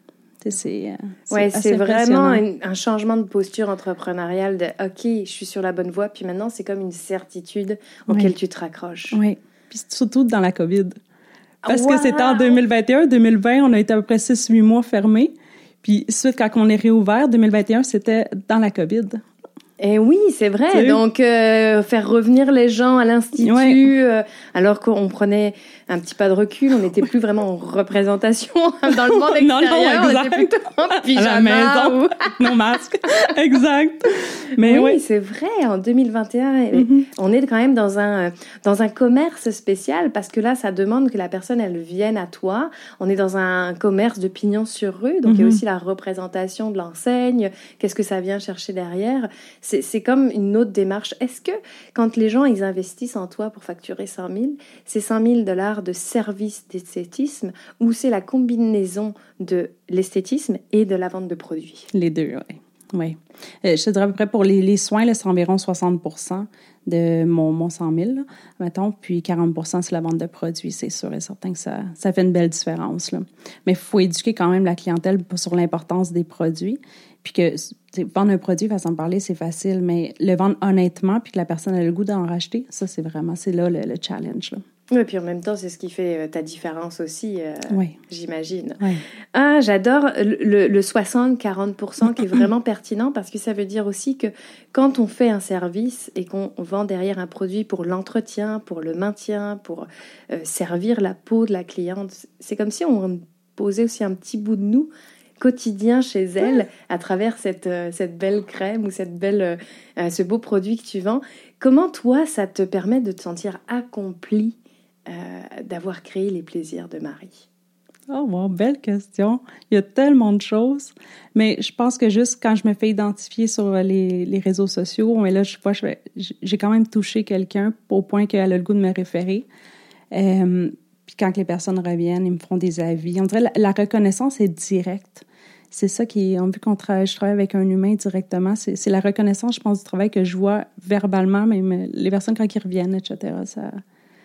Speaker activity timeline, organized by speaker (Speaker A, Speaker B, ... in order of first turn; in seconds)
Speaker A: 0.4-2.4, 9.1-11.0, 11.7-19.2, 20.7-21.0, 23.4-23.8, 28.9-35.0, 36.7-37.1, 45.2-45.6, 61.9-84.6, 87.7-88.0, 118.1-129.4, 130.1-143.8
Speaker B: 1.3-9.2, 11.6-12.6, 19.8-32.5, 34.6-61.9, 84.9-117.5